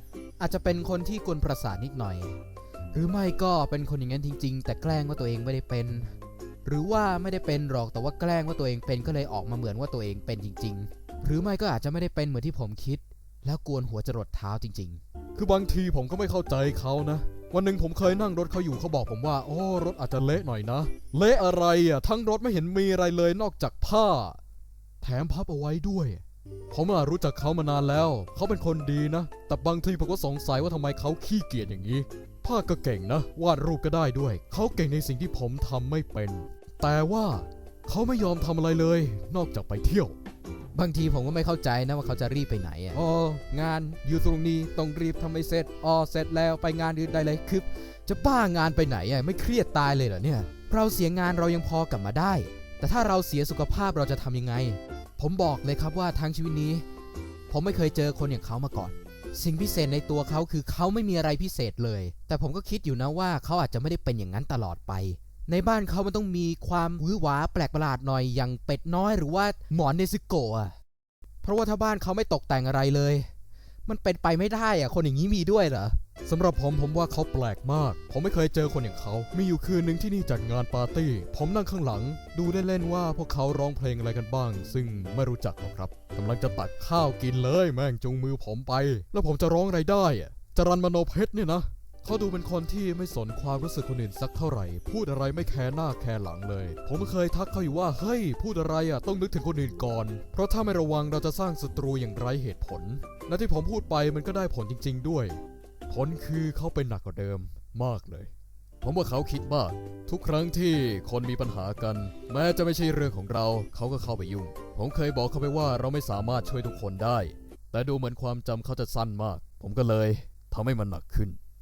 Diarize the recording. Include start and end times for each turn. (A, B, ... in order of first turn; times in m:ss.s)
0:00.4-0:02.4 A
0:02.9-0:06.1 A
0:06.6-0:15.0 A
0:15.4-0:24.3 B
0:23.2-0:23.6 A
0:25.0-0:26.1 A
0:25.4-0:26.2 B
0:26.7-0:40.1 B
0:26.7-0:27.0 A
0:28.2-0:29.5 A
0:40.7-0:56.8 A
0:57.5-1:10.8 A
1:11.4-1:13.3 A
1:13.8-1:16.0 A
1:16.3-1:45.4 B
1:45.9-1:48.3 B
1:48.8-2:01.4 B